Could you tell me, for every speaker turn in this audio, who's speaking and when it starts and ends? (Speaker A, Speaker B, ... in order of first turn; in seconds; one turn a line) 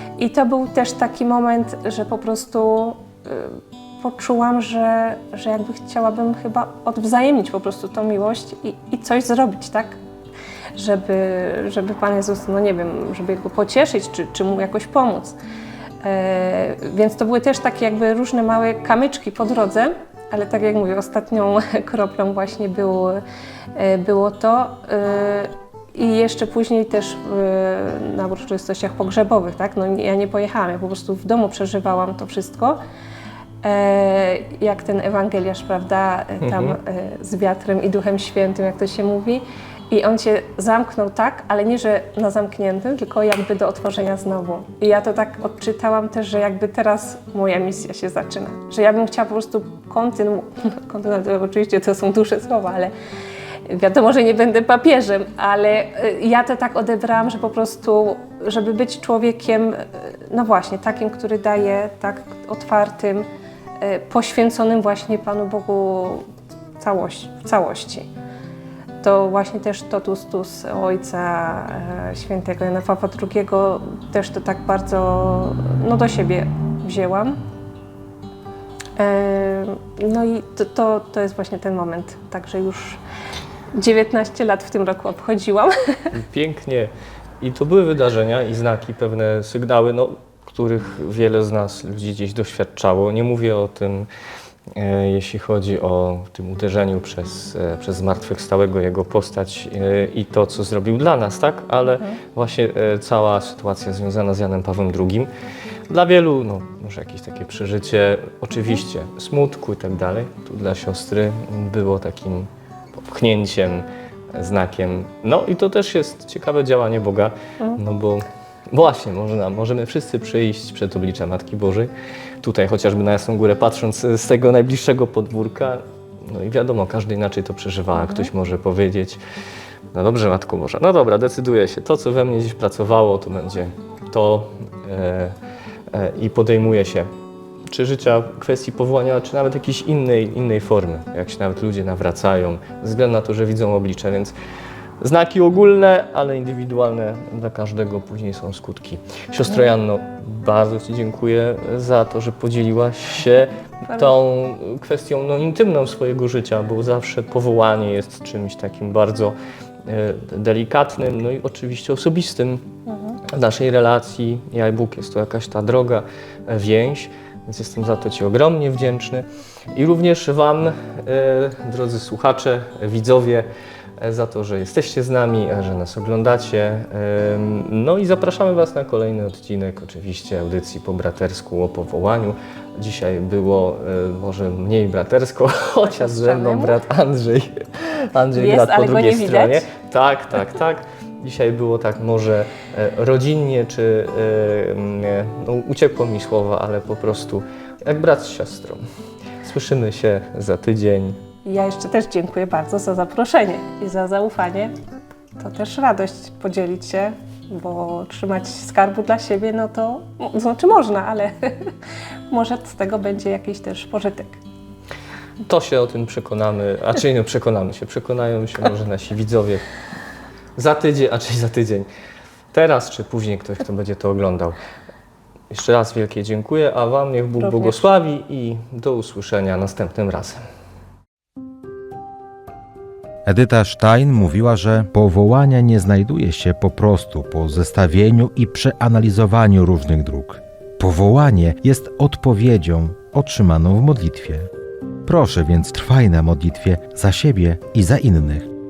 Speaker A: 0.2-10.0
Speaker A: 10.8-15.4
Speaker A: 16.0-23.2
Speaker A: 23.8-32.8
Speaker A: 33.6-52.9
Speaker B: 36.4-36.8
Speaker A: 53.7-63.2
Speaker A: 63.8-66.2
Speaker A: 66.8-68.1
Speaker A: 69.0-77.4
Speaker A: 79.0-83.0
Speaker A: 83.8-85.7
Speaker B: 86.1-94.1
Speaker B: 94.8-105.3
Speaker B: 105.9-112.5
Speaker B: 113.0-121.9
Speaker B: 122.4-129.2
Speaker A: 128.0-128.3
Speaker B: 129.9-135.3
Speaker B: 135.9-137.1
Speaker B: 137.7-144.3
Speaker B: 145.0-159.3
Speaker B: 159.9-162.6
Speaker A: 162.9-163.2
Speaker B: 163.3-173.5
Speaker B: 174.0-198.8
Speaker A: 185.8-186.8
Speaker A: 188.3-189.7
Speaker B: 199.4-201.2
Speaker A: 201.4-204.7
Speaker A: 205.4-211.7
Speaker A: 212.3-214.4
Speaker B: 215.4-219.6
Speaker B: 220.6-221.9
Speaker B: 222.5-224.6
Speaker B: 225.5-230.4
Speaker A: 227.4-227.8
Speaker C: 233.3-244.5
Speaker C: 245.1-248.5